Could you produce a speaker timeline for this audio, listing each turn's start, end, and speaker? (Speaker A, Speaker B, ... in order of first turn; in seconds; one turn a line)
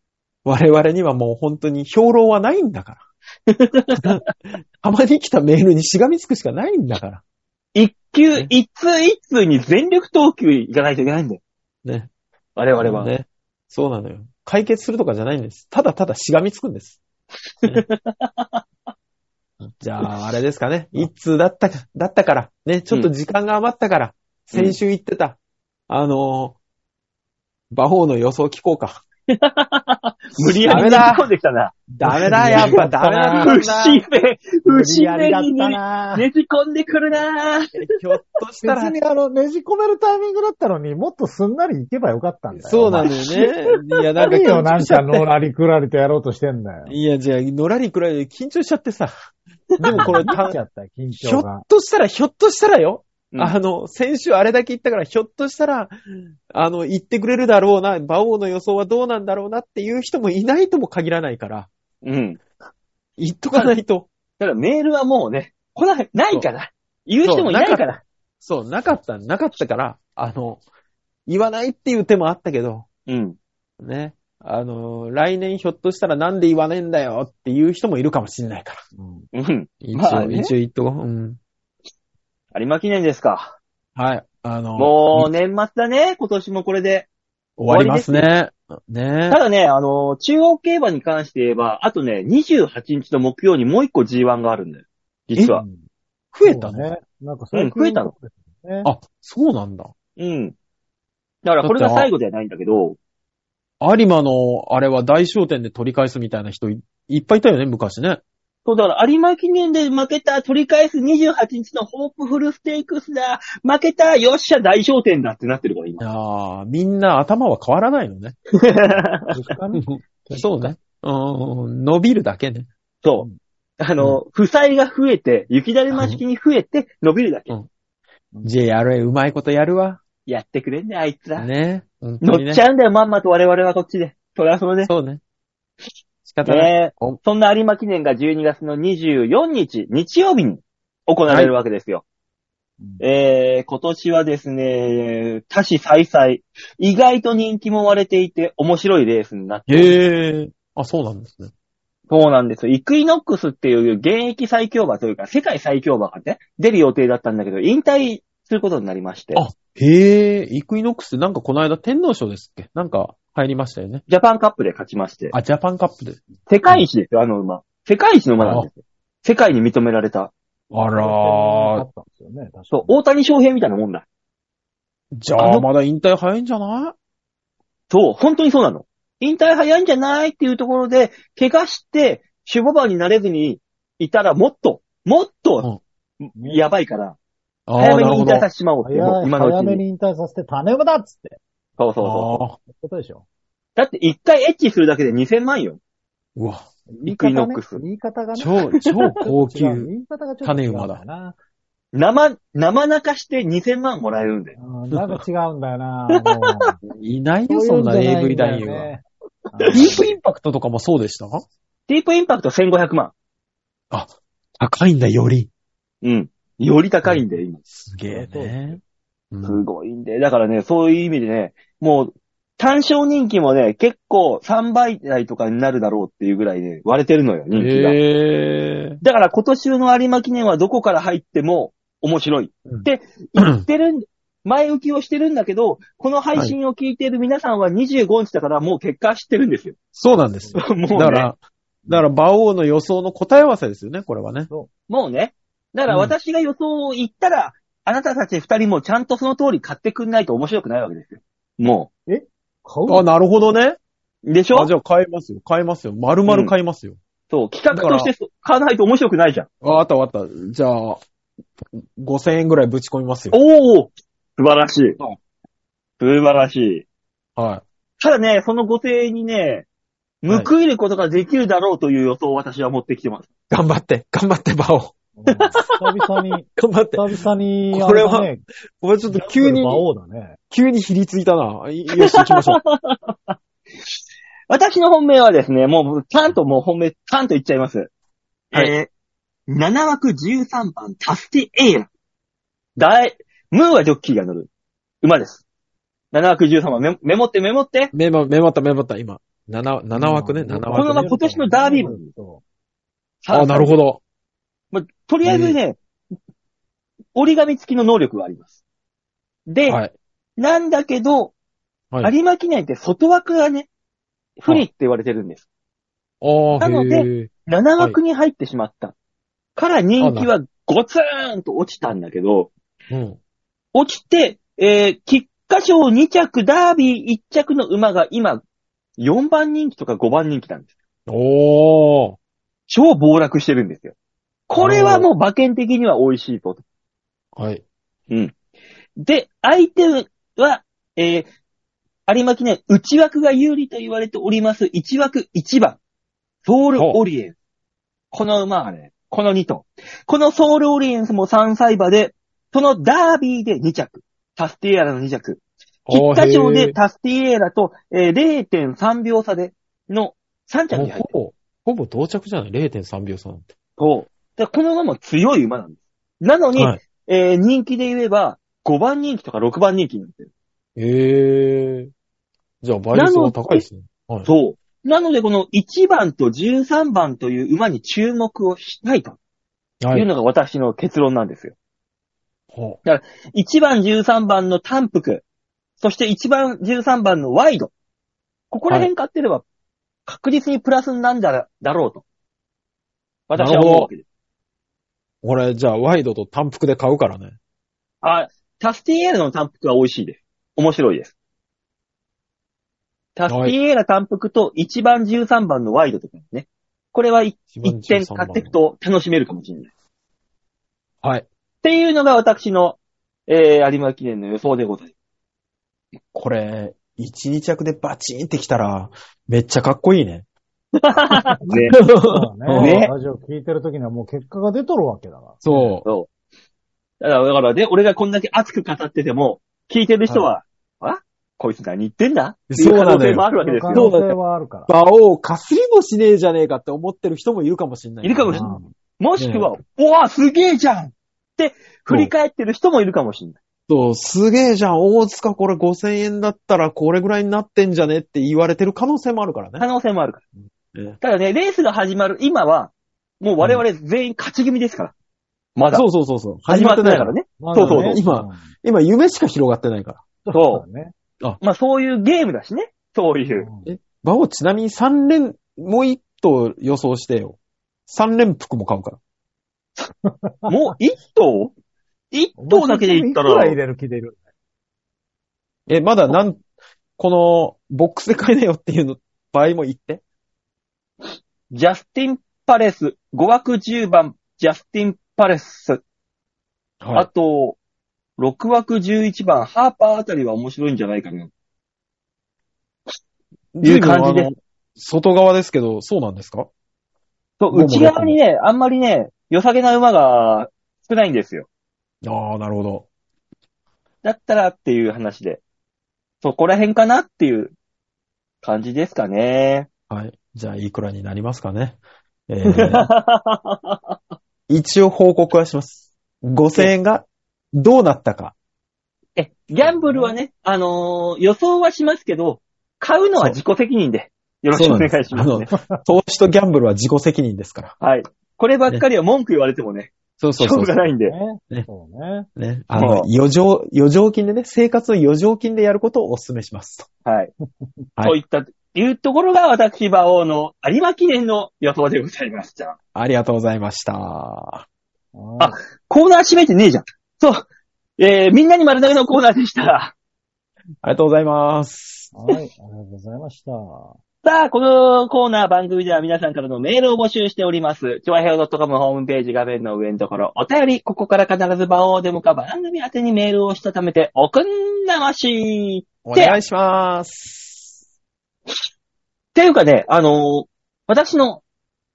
Speaker A: 0.5-3.0
Speaker B: 3.5-4.2
Speaker A: 4.0-7.2
Speaker B: 7.8-11.4
Speaker A: 11.8-12.1
Speaker B: 12.6-13.1
Speaker A: 12.8-17.0
Speaker B: 17.6-18.6
Speaker A: 19.6-25.4
Speaker B: 24.5-24.8
Speaker A: 25.9-26.6
Speaker A: 27.7-29.0
Speaker B: 29.3-31.9
Speaker A: 30.4-31.3
Speaker A: 31.9-34.0
Speaker C: 32.1-33.6
Speaker B: 33.4-37.8
Speaker C: 34.6-36.3
Speaker A: 37.8-39.0
Speaker C: 38.6-43.1
Speaker A: 42.6-45.3
Speaker B: 43.1-43.5
Speaker C: 44.2-47.0
Speaker A: 46.9-49.1
Speaker A: 49.8-50.6
Speaker C: 49.9-51.6
Speaker A: 51.1-55.9
Speaker A: 56.5-61.7
Speaker B: 62.0-62.4
Speaker A: 63.2-64.1
Speaker B: 64.4-68.0
Speaker A: 67.2-67.9
Speaker A: 68.4-70.6
Speaker A: 71.3-72.9
Speaker B: 73.1-73.4
Speaker A: 73.8-78.8
Speaker C: 79.0-79.3
Speaker B: 79.3-80.5
Speaker A: 79.8-81.4
Speaker B: 82.5-83.6
Speaker A: 84.0-85.3
Speaker B: 84.8-87.1
Speaker A: 87.6-89.4
Speaker B: 87.7-88.2
Speaker B: 89.3-95.6
Speaker C: 95.6-95.8
Speaker A: 96.3-96.9
Speaker C: 96.4-98.9
Speaker B: 97.5-98.1
Speaker A: 98.8-99.9
Speaker B: 100.2-100.5
Speaker B: 101.5-103.0
Speaker A: 101.6-102.1
Speaker A: 103.8-108.2
Speaker B: 108.7-116.0
Speaker A: 116.0-118.4
Speaker B: 118.6-119.3
Speaker C: 119.3-120.7
Speaker A: 119.8-122.7
Speaker B: 123.8-127.5
Speaker A: 125.9-126.2
Speaker A: 128.4-130.0
Speaker B: 130.3-131.5
Speaker A: 131.4-132.6
Speaker B: 132.2-134.9
Speaker A: 134.8-135.2
Speaker A: 136.3-137.2
Speaker B: 136.4-142.0
Speaker A: 141.3-141.5
Speaker B: 143.0-150.0
Speaker A: 149.7-151.5
Speaker B: 152.1-159.4
Speaker A: 159.3-164.0
Speaker B: 164.1-165.3
Speaker A: 165.3-166.8
Speaker B: 166.5-170.3
Speaker A: 168.4-168.7
Speaker A: 170.7-171.8
Speaker C: 170.9-172.9
Speaker B: 172.7-174.1
Speaker A: 175.1-176.9
Speaker B: 175.4-175.7
Speaker B: 177.9-185.7
Speaker B: 186.2-187.2
Speaker C: 186.4-186.6
Speaker A: 187.7-188.5
Speaker B: 187.8-189.8
Speaker C: 188.8-191.4
Speaker B: 191.8-192.4
Speaker A: 192.0-192.6
Speaker C: 192.6-193.2
Speaker B: 193.8-195.8
Speaker A: 196.4-196.7
Speaker C: 196.9-201.4
Speaker B: 197.1-197.8
Speaker A: 198.4-199.9
Speaker A: 200.4-201.0
Speaker B: 201.9-204.5
Speaker C: 204.6-206.8
Speaker A: 204.9-205.2
Speaker B: 206.2-206.7
Speaker A: 206.8-208.9
Speaker C: 207.5-210.2
Speaker B: 209.6-210.0
Speaker A: 209.7-211.4
Speaker B: 211.9-213.1
Speaker A: 213.9-215.5
Speaker B: 216.0-217.6
Speaker A: 217.1-218.8
Speaker C: 218.1-218.8
Speaker A: 219.3-219.6
Speaker B: 219.4-228.0
Speaker A: 227.6-229.0
Speaker B: 229.0-239.8
Speaker A: 233.4-233.7
Speaker A: 239.9-244.5
Speaker C: 240.4-240.7
Speaker B: 240.6-241.3
Speaker B: 244.9-251.9
Speaker A: 245.9-246.1
Speaker C: 252.1-253.1
Speaker A: 252.9-253.8
Speaker B: 254.3-254.7
Speaker A: 254.5-257.0
Speaker B: 256.3-256.5
Speaker B: 257.3-259.5
Speaker A: 257.7-258.1
Speaker A: 259.6-261.0
Speaker A: 261.6-263.4
Speaker B: 263.3-265.0
Speaker B: 266.0-266.9
Speaker A: 267.4-267.6
Speaker B: 268.0-269.7
Speaker B: 270.2-273.3
Speaker A: 273.5-274.9
Speaker C: 275.2-278.4
Speaker A: 276.6-277.1
Speaker A: 277.7-278.3
Speaker A: 278.8-279.9
Speaker C: 279.1-280.4
Speaker A: 280.5-282.6
Speaker B: 281.9-283.4
Speaker B: 284.5-287.9
Speaker B: 288.5-288.9
Speaker B: 289.5-291.9
Speaker B: 292.8-294.5
Speaker B: 295.0-295.4
Speaker B: 296.1-297.9
Speaker A: 297.9-301.1
Speaker C: 299.9-302.4
Speaker B: 300.7-302.1
Speaker B: 303.2-303.7
Speaker A: 303.3-304.0
Speaker B: 304.7-305.8
Speaker A: 305.2-305.6
Speaker B: 307.1-308.5
Speaker B: 309.5-309.8
Speaker A: 309.7-309.9
Speaker B: 310.4-311.3
Speaker B: 312.0-313.7
Speaker B: 314.4-315.4
Speaker A: 316.2-318.0
Speaker B: 316.6-318.9
Speaker B: 319.6-322.5
Speaker A: 320.0-320.3
Speaker A: 322.9-323.2
Speaker B: 323.7-328.4
Speaker B: 329.0-330.7
Speaker A: 331.1-332.2
Speaker B: 332.7-333.9
Speaker B: 334.5-336.6
Speaker A: 334.6-335.1
Speaker A: 337.4-337.6
Speaker B: 338.1-338.4
Speaker B: 339.0-341.3
Speaker B: 342.1-345.8
Speaker B: 346.4-347.4
Speaker B: 348.1-361.1
Speaker A: 355.9-356.8
Speaker A: 360.7-363.5
Speaker B: 363.8-370.3
Speaker A: 366.6-366.8
Speaker A: 370.8-371.9
Speaker A: 372.6-374.3
Speaker B: 372.9-373.7
Speaker B: 374.3-379.2
Speaker A: 379.8-380.1
Speaker B: 379.9-381.6
Speaker A: 382.5-382.8
Speaker B: 382.8-385.2
Speaker B: 385.8-387.7
Speaker B: 388.5-389.4
Speaker B: 390.1-392.0
Speaker B: 393.3-394.0
Speaker A: 393.4-393.9
Speaker A: 395.2-397.4
Speaker B: 398.0-401.1
Speaker B: 403.2-409.7
Speaker A: 403.3-403.6
Speaker A: 407.5-408.6
Speaker B: 411.6-412.8
Speaker B: 413.3-414.9
Speaker A: 416.1-420.2
Speaker B: 420.8-421.8
Speaker A: 421.5-422.8
Speaker C: 421.7-425.8
Speaker B: 422.6-422.9
Speaker A: 425.4-425.9
Speaker B: 427.0-433.9
Speaker A: 432.5-438.5
Speaker C: 433.1-434.7
Speaker B: 438.0-443.4
Speaker C: 438.3-438.7
Speaker A: 439.2-439.5
Speaker A: 443.7-449.6
Speaker B: 449.6-450.2
Speaker B: 451.0-454.9
Speaker B: 455.6-455.9
Speaker A: 455.7-460.1
Speaker B: 456.5-458.0
Speaker C: 457.4-458.5
Speaker C: 460.3-460.9
Speaker B: 460.3-460.6
Speaker B: 461.4-463.5
Speaker C: 463.4-463.7
Speaker A: 463.7-469.0
Speaker C: 470.0-470.5
Speaker B: 470.5-471.5
Speaker B: 472.1-473.6
Speaker C: 472.4-474.2
Speaker A: 475.7-476.4
Speaker A: 477.0-480.0
Speaker B: 481.5-485.8
Speaker A: 486.8-487.1
Speaker B: 486.9-487.6
Speaker B: 488.2-491.3
Speaker A: 493.6-496.5
Speaker B: 493.6-494.3
Speaker B: 497.4-501.5
Speaker A: 497.5-498.2
Speaker A: 502.0-502.9
Speaker B: 504.0-505.4
Speaker B: 506.2-507.5
Speaker B: 508.4-509.7
Speaker A: 509.9-512.9
Speaker B: 512.5-514.0
Speaker A: 514.5-518.4
Speaker B: 519.2-525.5
Speaker A: 524.5-527.7
Speaker C: 525.5-525.8
Speaker B: 527.8-531.2
Speaker A: 530.2-530.9
Speaker C: 531.0-532.3
Speaker A: 532.4-536.9
Speaker B: 532.8-533.1
Speaker B: 537.1-537.3
Speaker B: 538.0-542.8
Speaker A: 543.0-544.6
Speaker C: 545.1-545.6
Speaker B: 545.4-547.5
Speaker B: 548.0-550.0
Speaker A: 550.8-552.1
Speaker C: 552.1-554.0
Speaker B: 554.2-566.4
Speaker A: 566.0-567.8
Speaker B: 569.4-571.4